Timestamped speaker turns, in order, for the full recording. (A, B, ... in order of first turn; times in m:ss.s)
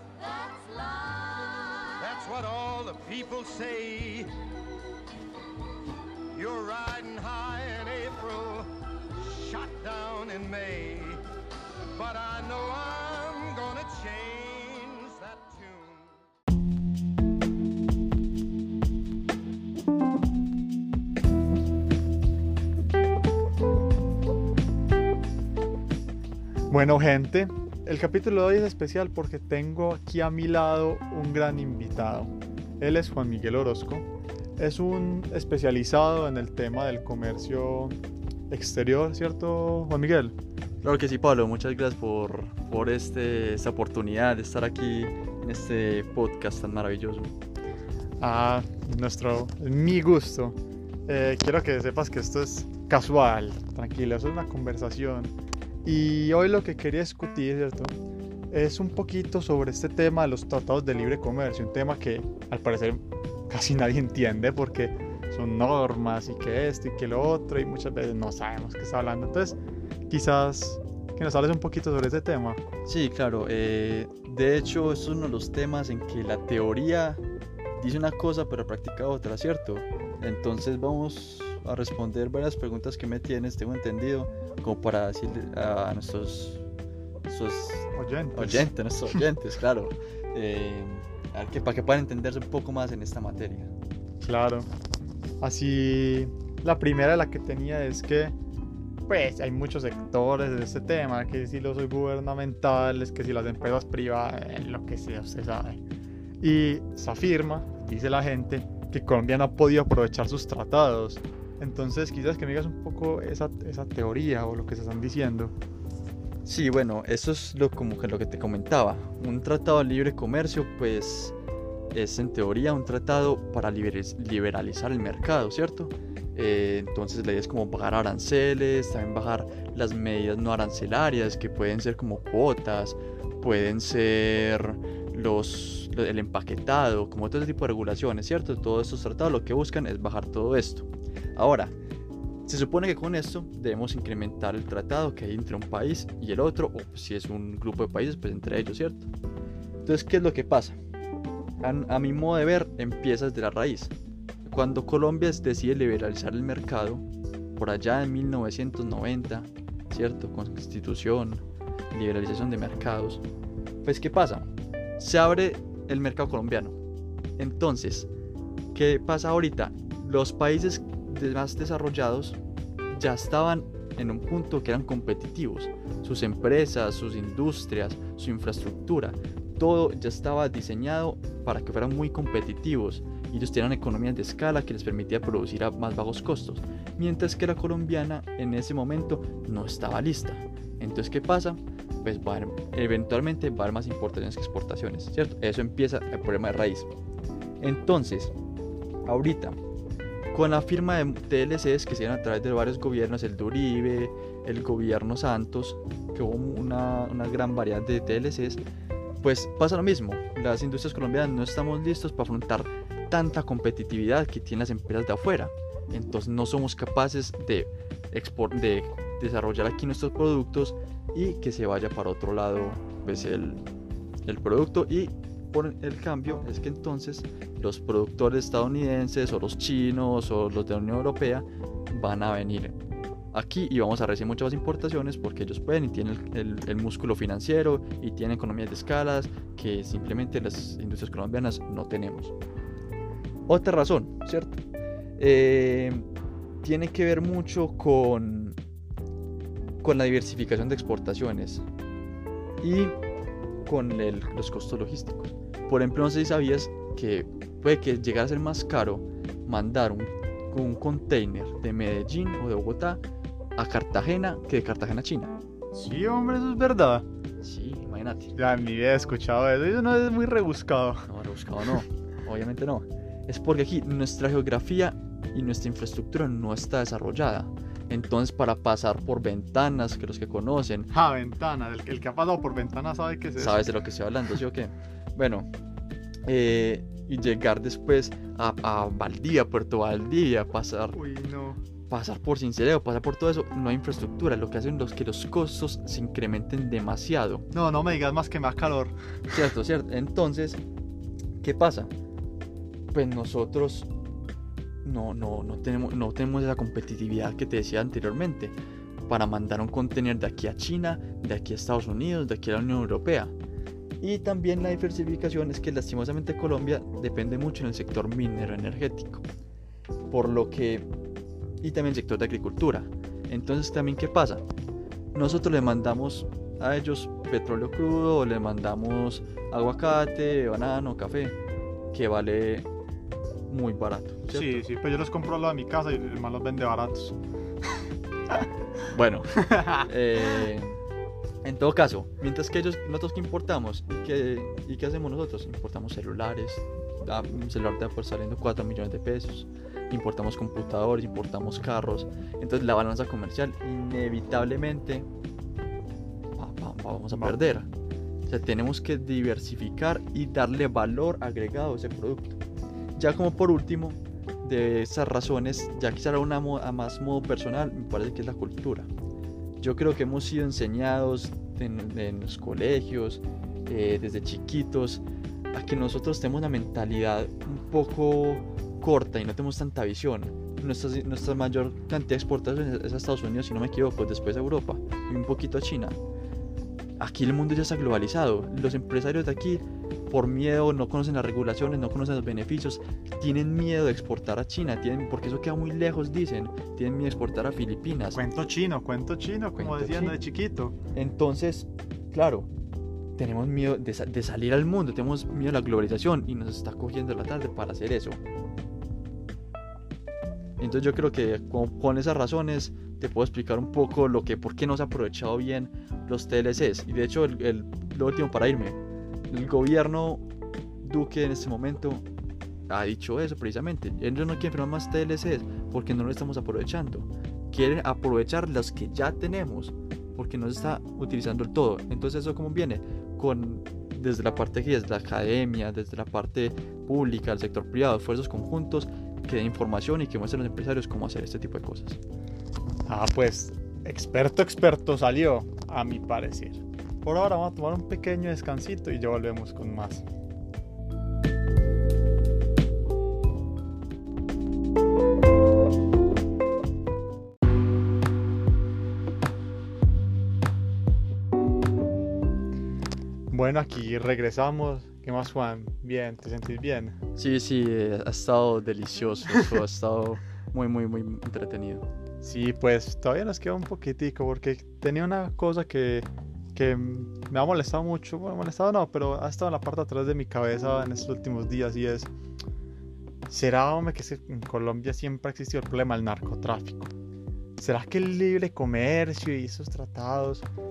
0:00.6-0:04.4 A
0:06.3-0:11.2 A
0:11.9-0:16.1 A
0:26.7-0:34.1 B
0:34.6-0:38.0 B
0:38.5-0:40.3 B
0:40.8-0:47.3 C
0:48.2-0:50.5 B
0:51.1-0:55.3 B
0:55.8-0:57.9 B
0:58.5-1:09.6 B
1:10.1-1:12.6 B
1:12.8-1:17.2 C
1:17.8-1:26.6 C
1:27.3-1:33.7 C
1:27.9-1:29.2 B
1:34.2-1:34.7 B
1:35.4-1:38.3 B
1:39.1-1:45.8 B
1:46.4-1:55.5 B
1:56.4-2:01.4 C
2:01.9-2:21.7 C
2:22.4-2:29.1 C
2:29.8-2:30.8 C
2:31.6-2:33.9 C
2:34.4-2:37.0 C
2:37.6-2:43.2 C
2:43.8-2:46.8 C
2:47.4-2:48.1 C
2:48.7-2:52.4 C
2:52.9-3:17.0 C
3:17.6-3:18.3 C
3:19.0-3:19.6 C
3:20.3-3:28.6 C
3:29.2-3:43.6 C
3:44.2-3:52.8 C
3:53.3-4:02.3 C
4:03.5-4:04.6 C
4:05.2-4:06.0 C
4:06.6-4:08.6 C
4:09.8-4:11.6 C
4:12.6-4:12.9 C
4:13.6-4:23.0 C
4:23.6-4:25.3 C
4:25.7-4:27.0 B
4:27.4-4:28.3 C
4:28.3-4:31.1 B
4:31.1-4:40.9 C
4:40.9-4:43.6 B
4:43.4-4:45.5 C
4:46.3-4:51.0 C
4:50.9-4:51.6 B
4:51.9-4:57.5 C
4:57.5-4:59.4 B
4:59.3-5:00.6 C
5:01.4-5:01.9 C
5:02.9-5:03.9 C
5:04.8-5:08.5 C
5:09.1-5:13.3 C
5:14.0-5:19.2 C
5:20.1-5:20.8 C
5:21.6-5:24.4 C
5:25.1-5:31.4 C
5:31.9-5:32.7 C
5:33.5-5:34.6 C
5:34.3-5:37.2 B
5:38.9-5:40.8 C
5:39.5-5:39.8 B
5:41.4-5:55.1 C
5:56.4-5:57.7 C
5:58.3-6:02.4 C
6:03.0-6:08.9 C
6:09.6-6:26.0 C
6:27.0-6:38.2 C
6:38.1-6:40.7 B
6:39.5-6:40.2 C
6:40.9-6:42.5 C
6:43.2-6:48.2 C
6:50.6-6:58.8 C
6:59.3-7:00.2 C
7:00.8-7:02.0 C
7:02.7-7:22.0 C
7:22.9-7:30.0 B
7:43.3-7:47.0 B
7:47.2-7:51.8 C
7:52.2-8:02.1 B
8:03.3-8:06.9 B
8:07.6-8:10.5 B